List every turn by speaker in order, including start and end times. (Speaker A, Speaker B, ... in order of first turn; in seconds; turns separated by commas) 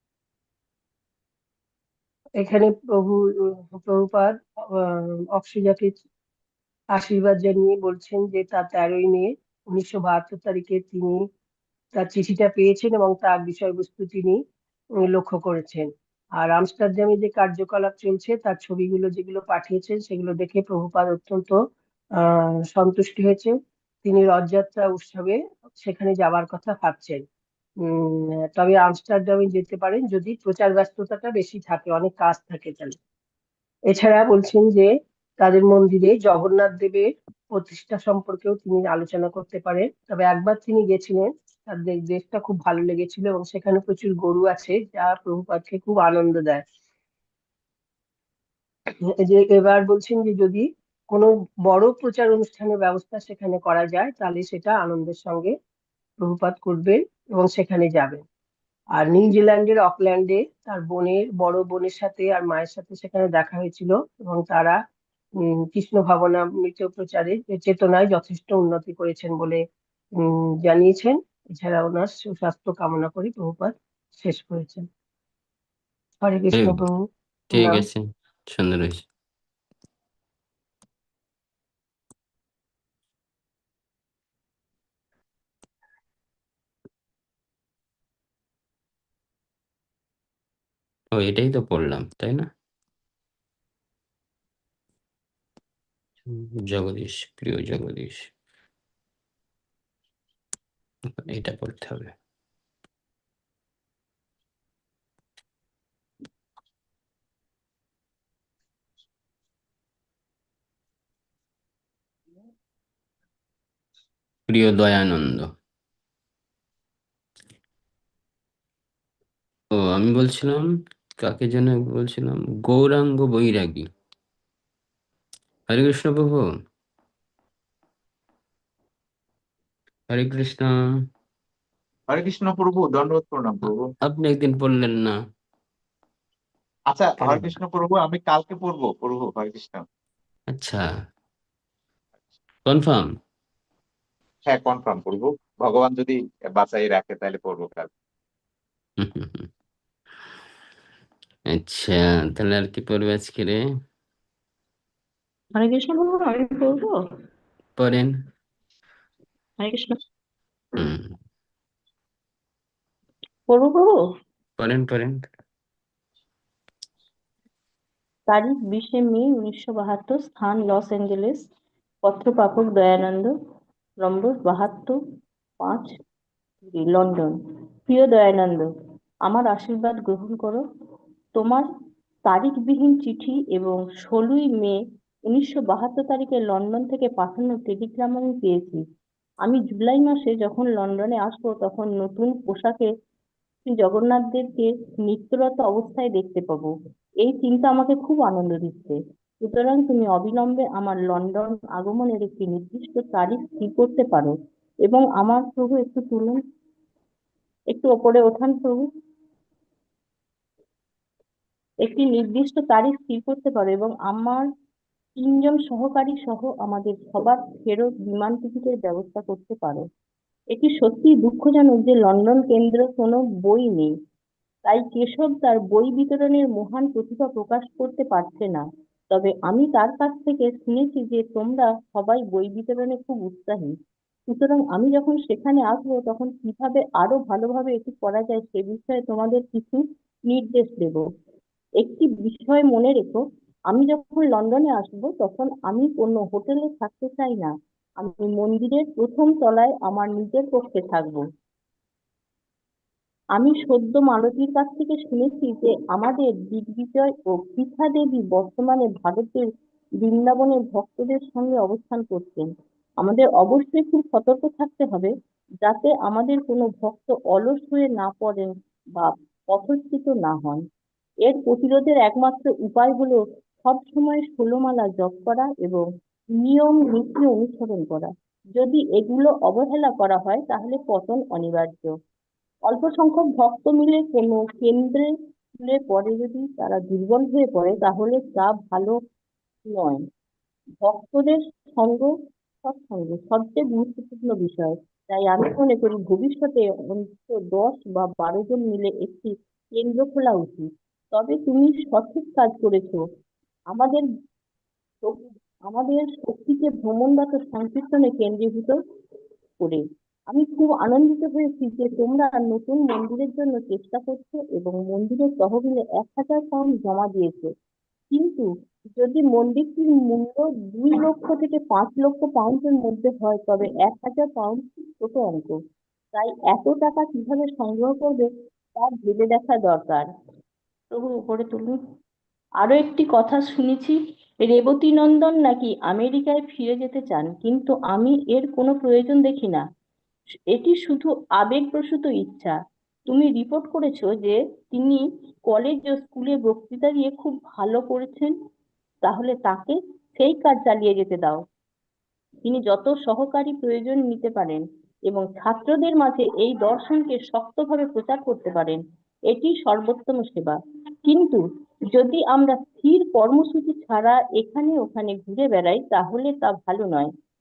Speaker A: 2.4-6.0, Speaker A: 6.9-11.2, Speaker A: 11.9-14.4, Speaker A: 15.0-21.6, Speaker A: 22.2-27.2, Speaker A: 27.8-33.0, Speaker A: 33.9-46.6, Speaker A: 49.0-55.5, Speaker A: 56.2-58.2, Speaker A: 58.9-64.8, Speaker A: 65.4-69.6, Speaker A: 70.2-74.9, Speaker A: 76.2-77.8, Speaker B: 76.5-76.8, Speaker B: 77.5-79.0, Speaker B: 91.1-92.5, Speaker B: 96.2-98.3, Speaker B: 101.2-102.1, Speaker B: 114.5-115.5, Speaker B: 119.7-120.7, Speaker B: 121.2-123.9, Speaker B: 125.7-126.5, Speaker B: 130.1-130.7, Speaker C: 132.1-133.9, Speaker B: 134.0-135.2, Speaker C: 136.9-139.8, Speaker B: 137.2-137.5, Speaker B: 140.5-140.8, Speaker B: 142.6-143.1, Speaker C: 144.5-147.9, Speaker B: 149.0-149.5, Speaker B: 151.5-153.6, Speaker D: 155.6-156.9, Speaker B: 157.8-158.1, Speaker D: 159.6-159.9, Speaker B: 160.8-161.1, Speaker D: 163.5-164.0, Speaker B: 164.6-165.2, Speaker D: 168.3-171.5, Speaker D: 172.0-173.3, Speaker D: 174.0-175.0, Speaker D: 175.6-175.9, Speaker D: 176.7-177.3, Speaker D: 177.9-178.7, Speaker D: 179.2-180.6, Speaker D: 181.3-181.7, Speaker D: 182.3-188.8, Speaker D: 189.4-192.9, Speaker D: 193.7-196.7, Speaker D: 197.2-204.3, Speaker D: 204.8-206.4, Speaker D: 207.7-208.9, Speaker D: 211.8-214.4, Speaker D: 215.2-219.8, Speaker D: 220.5-223.9, Speaker D: 224.7-233.7, Speaker D: 234.3-241.1, Speaker D: 241.8-251.2, Speaker D: 253.3-259.4, Speaker D: 260.0-262.5, Speaker D: 263.0-265.1, Speaker D: 265.6-270.6, Speaker D: 271.2-281.9, Speaker D: 282.7-289.0, Speaker D: 289.6-290.0, Speaker D: 290.8-303.0, Speaker D: 303.7-304.1, Speaker D: 305.0-308.8, Speaker D: 309.6-317.5, Speaker D: 318.1-325.6, Speaker D: 326.1-330.1, Speaker D: 330.9-331.8, Speaker D: 332.6-339.6, Speaker D: 340.5-342.6, Speaker D: 343.1-348.3, Speaker D: 349.0-351.4, Speaker D: 352.4-361.4, Speaker D: 361.9-367.1